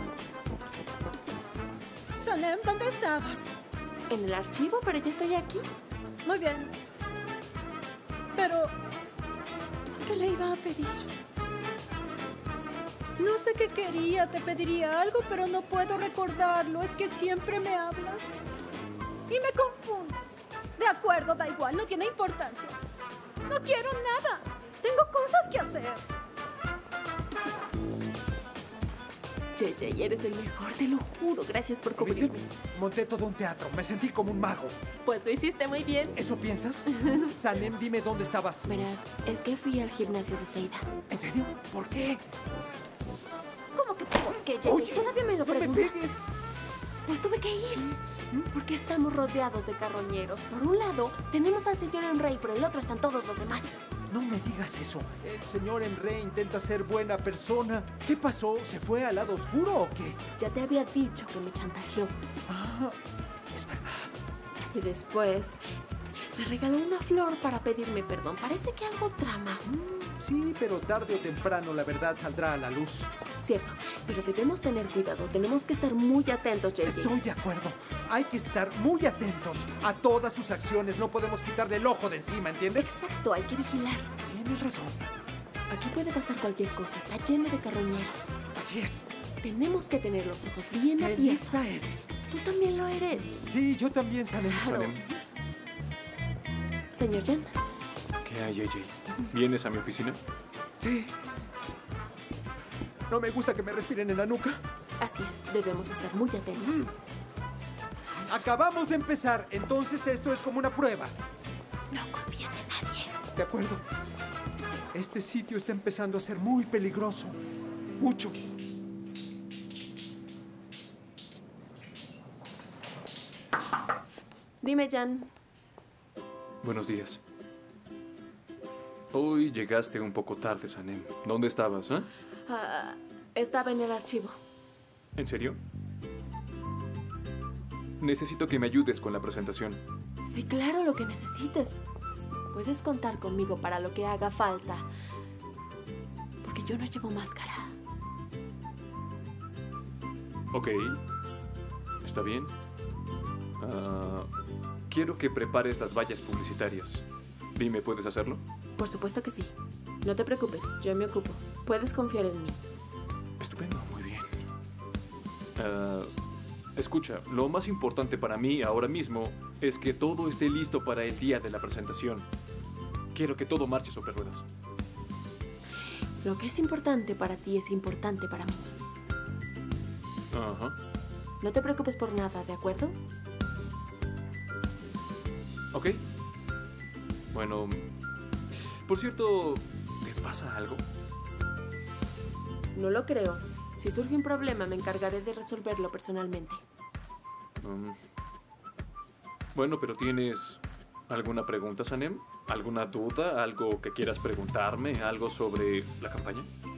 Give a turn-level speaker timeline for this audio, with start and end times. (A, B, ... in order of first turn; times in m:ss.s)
0:02.2-0:02.6 A
0:03.2-0:03.4 A
0:04.1-0:05.7 B
0:13.4-0:16.3 A
0:16.9-0:18.3 A
0:19.5-0:19.8 A
0:20.8-0:22.7 A
0:23.5-0:26.0 A
0:29.6-0:32.4 B
0:32.0-0:34.8 C
0:35.0-0:36.2 B
0:36.2-0:36.8 C
0:36.9-0:37.3 B
0:37.4-0:38.7 C
0:38.7-0:40.8 B
0:41.1-0:42.2 C
0:43.8-0:46.0 B
0:44.6-0:46.2 C
0:47.1-0:47.9 B
0:48.5-0:53.7 B
0:54.1-1:00.2 C
1:00.4-1:02.1 B
1:02.5-1:02.9 C
1:03.5-1:04.1 C
1:04.7-1:05.6 B
1:06.3-1:09.6 B
1:09.7-1:13.1 C
1:13.4-1:17.1 B
1:16.8-1:22.9 C
1:22.7-1:24.1 B
1:24.2-1:25.0 C
1:25.7-1:28.4 B
1:28.5-1:29.0 C
1:29.4-1:31.4 B
1:31.0-1:32.1 C
1:32.3-1:33.4 B
1:33.5-1:34.9 C
1:34.5-1:34.9 B
1:34.6-1:35.0 D
1:36.9-1:37.5 B
1:38.2-1:40.2 D
1:40.8-1:41.1 C
1:43.1-1:44.6 C
1:45.0-1:46.9 B
1:46.6-1:46.9 C
1:48.3-1:51.1 C
1:51.9-1:53.1 B
1:53.3-1:53.8 C
1:54.9-1:57.4 C
1:58.0-1:58.3 C
2:04.6-2:05.3 B
2:06.6-2:07.2 D
2:09.1-2:12.1 D
2:12.5-2:14.4 B
2:15.2-2:15.6 D
2:18.0-2:19.8 D
2:20.2-2:21.8 B
2:22.5-2:24.8 B
2:26.4-2:27.7 B
2:30.5-2:31.0 D
2:32.0-2:32.5 D
2:33.6-2:34.3 D
2:34.9-2:37.0 D
2:37.5-2:38.4 D
2:38.8-2:39.5 B
2:40.0-2:42.6 B
2:43.4-2:44.3 D
2:45.6-2:46.1 D
2:46.8-2:52.2 D
2:53.1-2:54.4 D
2:56.2-2:58.7 B
3:00.3-3:00.8 D
3:01.4-3:03.0 B
3:05.7-3:06.0 D
3:07.3-3:07.9 D
3:08.8-3:10.8 D
3:12.7-3:16.6 B
3:17.6-3:18.0 D
3:19.5-3:26.5 D